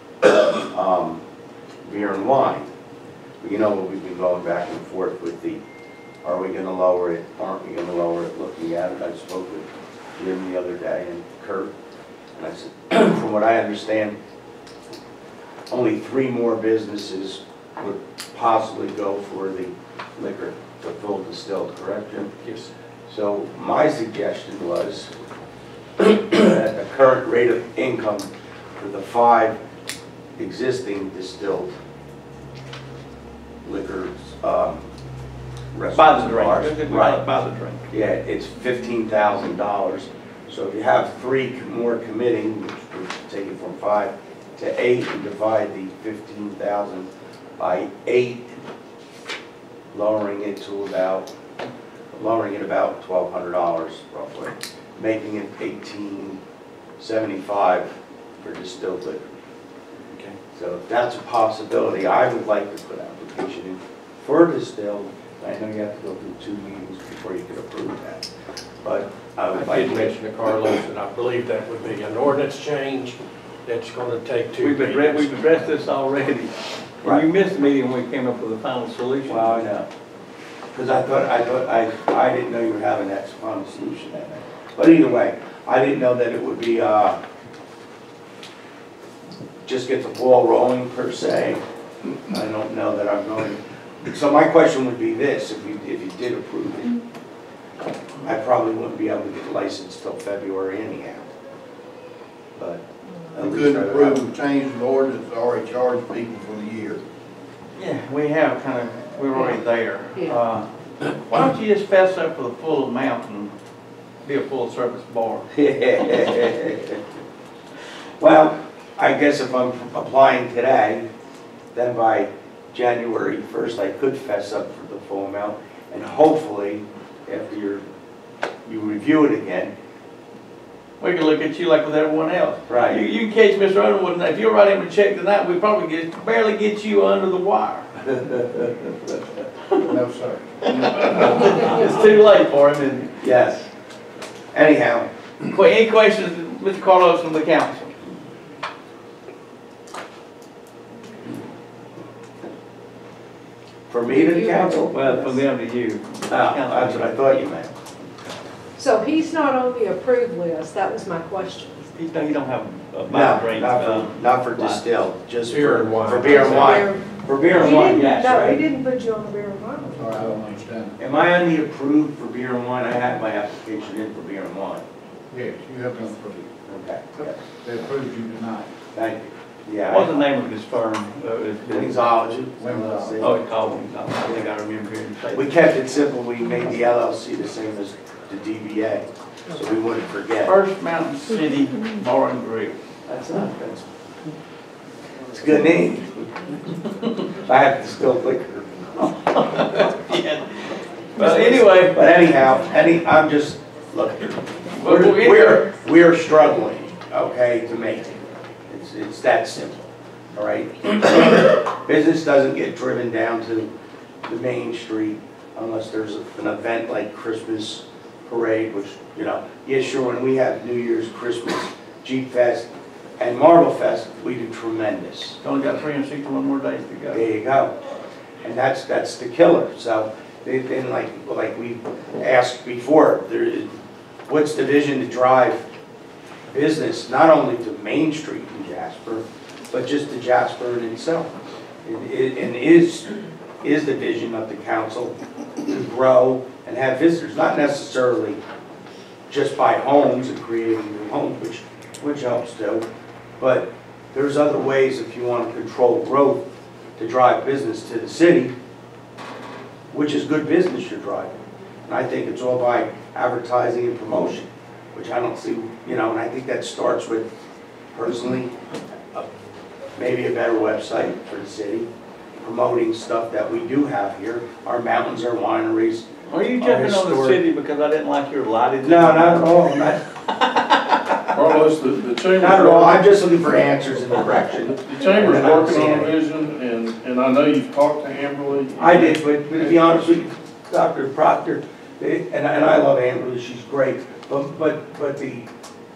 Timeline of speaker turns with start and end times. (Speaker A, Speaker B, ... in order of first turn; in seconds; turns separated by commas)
Speaker A: 0.7-1.2, Speaker A: 1.8-2.7, Speaker A: 3.4-5.6, Speaker A: 6.2-11.7, Speaker A: 12.3-14.2, Speaker A: 15.7-22.3, Speaker B: 22.4-22.7, Speaker A: 23.1-25.1, Speaker A: 26.0-29.6, Speaker A: 30.4-31.7, Speaker A: 33.6-34.9, Speaker A: 35.7-37.2, Speaker C: 35.9-37.8, Speaker A: 37.9-48.5, Speaker A: 49.9-51.3, Speaker A: 52.1-56.4, Speaker A: 57.0-59.4, Speaker A: 60.5-68.2, Speaker A: 68.8-70.2, Speaker B: 69.5-75.3, Speaker C: 74.6-79.6, Speaker A: 79.2-79.9, Speaker A: 80.7-87.2, Speaker A: 89.6-91.6, Speaker A: 92.2-97.0, Speaker A: 98.2-101.3, Speaker A: 102.5-104.2, Speaker D: 103.3-107.0, Speaker C: 107.8-113.5, Speaker C: 114.2-115.5, Speaker A: 115.5-117.0, Speaker A: 118.2-121.0, Speaker A: 121.7-127.8, Speaker A: 128.7-129.7, Speaker C: 131.0-139.1, Speaker A: 132.7-133.0, Speaker C: 139.6-139.9, Speaker D: 139.8-141.8, Speaker C: 140.7-143.3, Speaker A: 143.2-143.6, Speaker A: 144.5-145.1, Speaker C: 145.4-147.9, Speaker A: 153.9-155.0, Speaker E: 154.1-155.4, Speaker C: 154.8-157.4, Speaker A: 156.3-157.7, Speaker E: 158.8-161.8, Speaker C: 161.8-164.8, Speaker A: 163.1-168.6, Speaker B: 165.4-166.9, Speaker E: 166.2-170.3, Speaker D: 169.9-171.0, Speaker A: 171.0-174.8, Speaker D: 175.3-176.5, Speaker A: 176.7-177.4, Speaker D: 177.5-178.7, Speaker A: 178.9-180.2, Speaker C: 179.9-182.0, Speaker A: 181.7-183.4, Speaker D: 182.6-183.2, Speaker C: 183.2-185.5, Speaker A: 185.3-190.5, Speaker C: 190.4-192.8, Speaker A: 193.1-193.8, Speaker A: 195.3-196.3, Speaker A: 197.4-198.8, Speaker C: 199.0-200.6, Speaker C: 201.2-202.0, Speaker A: 201.2-213.7, Speaker C: 204.7-205.7, Speaker A: 214.2-222.7, Speaker A: 223.2-225.4, Speaker C: 225.4-227.2, Speaker A: 227.1-227.7, Speaker A: 228.4-233.7, Speaker A: 234.2-235.7, Speaker A: 236.5-241.3, Speaker A: 241.8-243.1, Speaker A: 243.6-245.1, Speaker A: 245.7-248.4, Speaker A: 249.3-252.8, Speaker A: 253.4-256.4, Speaker A: 257.0-258.5, Speaker A: 259.9-267.3, Speaker A: 267.9-268.5, Speaker A: 269.9-271.9, Speaker A: 272.4-277.4, Speaker C: 276.3-279.6, Speaker A: 278.8-280.0, Speaker C: 280.3-281.0, Speaker F: 281.3-283.1, Speaker A: 282.4-286.1, Speaker F: 284.6-290.0, Speaker A: 288.8-295.5